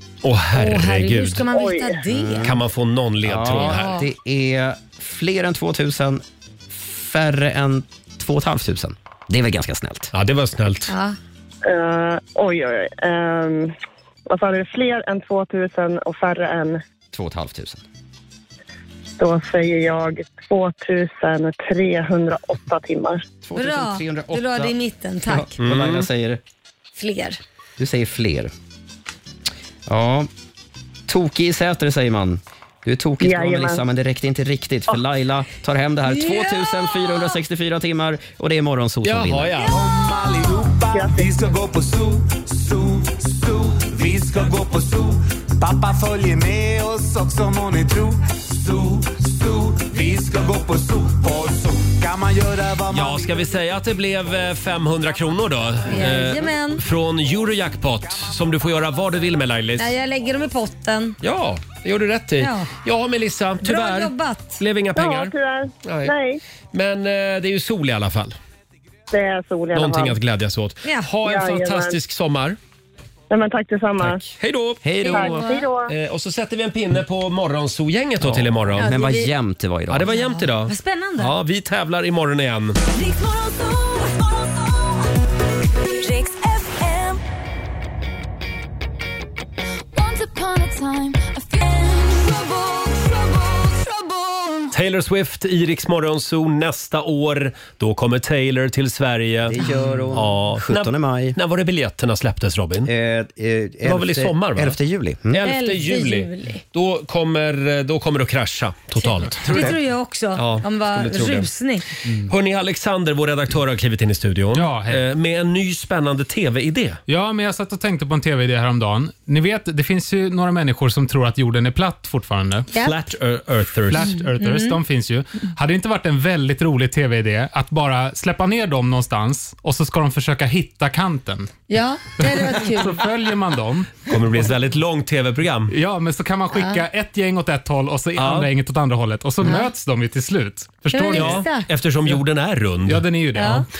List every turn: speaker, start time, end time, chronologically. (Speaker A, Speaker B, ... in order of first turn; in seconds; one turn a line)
Speaker A: 0.2-1.4
Speaker B: 0.5-2.4
Speaker C: 1.5-2.0
Speaker D: 2.1-2.6
Speaker A: 2.4-4.0
Speaker D: 3.2-10.1
Speaker B: 3.6-4.1
Speaker A: 10.1-10.9
Speaker B: 10.9-11.2
Speaker C: 11.6-13.7
Speaker C: 14.3-16.8
Speaker D: 17.1-17.8
Speaker C: 19.2-23.2
Speaker D: 23.4-26.4
Speaker B: 23.6-25.6
Speaker A: 25.6-26.1
Speaker B: 27.0-27.4
Speaker D: 27.8-28.5
Speaker D: 29.9-30.3
Speaker D: 31.1-39.6
Speaker C: 33.2-33.8
Speaker B: 36.0-37.4
Speaker A: 39.0-39.8
Speaker E: 39.6-53.5
Speaker C: 40.9-41.5
Speaker A: 52.9-59.9
Speaker B: 55.9-56.8
Speaker E: 58.3-58.6
Speaker B: 59.8-61.2
Speaker A: 61.2-66.1
Speaker B: 62.4-62.7
Speaker B: 63.6-64.6
Speaker C: 64.9-66.4
Speaker A: 66.7-68.3
Speaker C: 69.1-70.2
Speaker A: 69.7-72.6
Speaker B: 70.8-71.1
Speaker C: 71.2-72.0
Speaker C: 73.3-74.2
Speaker A: 74.1-78.8
Speaker D: 74.8-75.3
Speaker B: 75.0-75.6
Speaker C: 75.1-75.9
Speaker D: 78.2-80.2
Speaker B: 78.8-79.3
Speaker A: 79.9-82.8
Speaker B: 80.1-81.3
Speaker F: 82.9-85.1
Speaker F: 86.0-87.2
Speaker F: 89.9-94.7
Speaker A: 94.7-99.6
Speaker D: 99.4-101.4
Speaker A: 100.1-102.9
Speaker D: 102.8-105.4
Speaker A: 103.8-104.8
Speaker A: 105.3-109.8
Speaker B: 105.4-106.6
Speaker B: 109.0-111.8
Speaker A: 110.3-111.5
Speaker A: 112.3-117.0
Speaker G: 114.5-115.0
Speaker G: 117.1-122.7
Speaker A: 122.7-124.1
Speaker G: 123.9-131.5
Speaker B: 124.3-124.8
Speaker B: 131.7-133.0
Speaker G: 132.2-134.5
Speaker A: 134.1-135.7
Speaker G: 135.7-141.5
Speaker B: 136.5-136.8
Speaker A: 138.2-138.5
Speaker B: 139.4-139.7
Speaker B: 140.9-141.7
Speaker A: 141.1-143.1
Speaker G: 142.8-143.7
Speaker B: 143.3-143.7